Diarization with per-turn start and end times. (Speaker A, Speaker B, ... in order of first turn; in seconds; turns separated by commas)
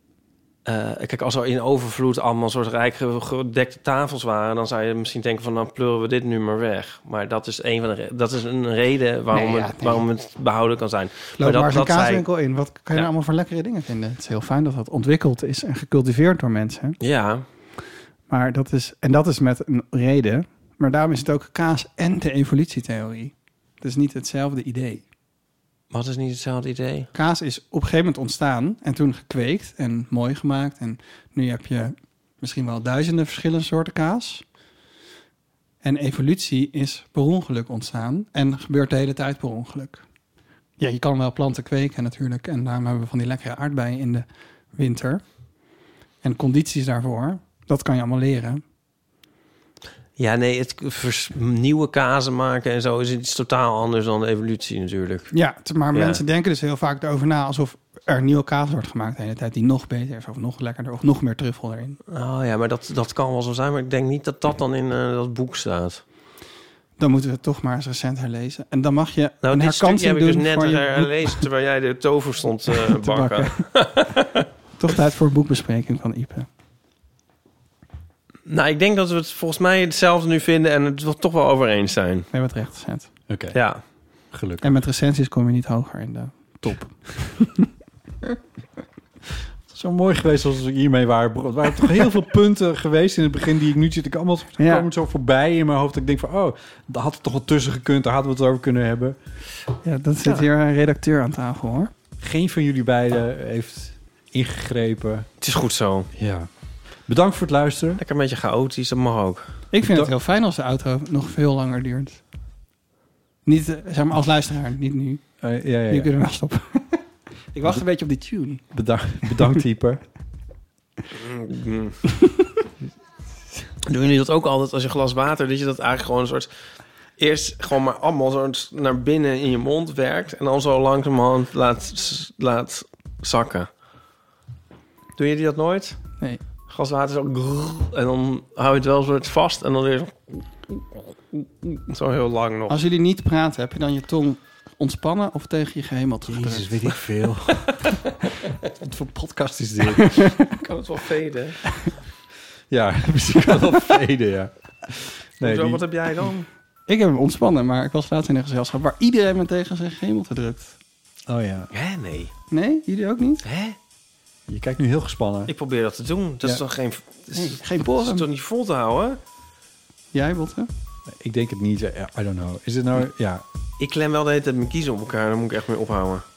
Speaker A: 0.7-12.3, Speaker B: 9.3-10.0, Speaker B: 11.4-17.0, Speaker A: 17.0-17.4, Speaker B: 18.3-25.0, Speaker A: 25.9-27.1, Speaker B: 27.1-34.4, Speaker B: 35.8-40.0, Speaker B: 40.8-45.2, Speaker B: 46.2-48.6, Speaker A: 50.2-55.3, Speaker B: 55.3-62.0, Speaker A: 55.9-56.2, Speaker A: 62.1-66.0, Speaker B: 67.0-71.4, Speaker A: 69.4-74.5, Speaker B: 72.9-73.7, Speaker B: 74.8-76.5, Speaker A: 78.5-82.3, Speaker B: 82.3-83.1, Speaker C: 83.3-83.6, Speaker A: 83.5-83.8, Speaker C: 84.3-84.8, Speaker B: 84.6-87.7, Speaker C: 89.7-99.2, Speaker B: 94.6-94.9, Speaker B: 99.8-101.9, Speaker C: 102.2-105.3, Speaker A: 105.4-106.1, Speaker C: 106.2-106.5, Speaker C: 107.1-108.0, Speaker A: 108.0-109.5, Speaker B: 109.7-112.2, Speaker C: 109.8-110.1, Speaker B: 113.5-115.2, Speaker C: 115.4-116.1, Speaker B: 115.9-118.7, Speaker C: 118.7-120.0, Speaker B: 119.2-119.6, Speaker A: 121.1-122.0, Speaker A: 123.9-126.5, Speaker A: 127.2-133.7, Speaker A: 135.2-136.0, Speaker A: 136.7-142.8, Speaker B: 142.7-146.7, Speaker C: 146.3-147.7, Speaker C: 148.8-150.3, Speaker B: 150.0-150.4, Speaker A: 150.6-151.6, Speaker C: 152.7-155.8, Speaker A: 155.4-156.5, Speaker B: 156.9-160.8, Speaker C: 161.3-161.7, Speaker A: 161.7-162.3, Speaker B: 162.5-163.4, Speaker A: 163.4-163.8, Speaker C: 164.5-165.5, Speaker A: 165.5-169.2, Speaker B: 167.3-168.2, Speaker B: 170.1-170.7, Speaker C: 171.1-173.4, Speaker A: 173.8-176.2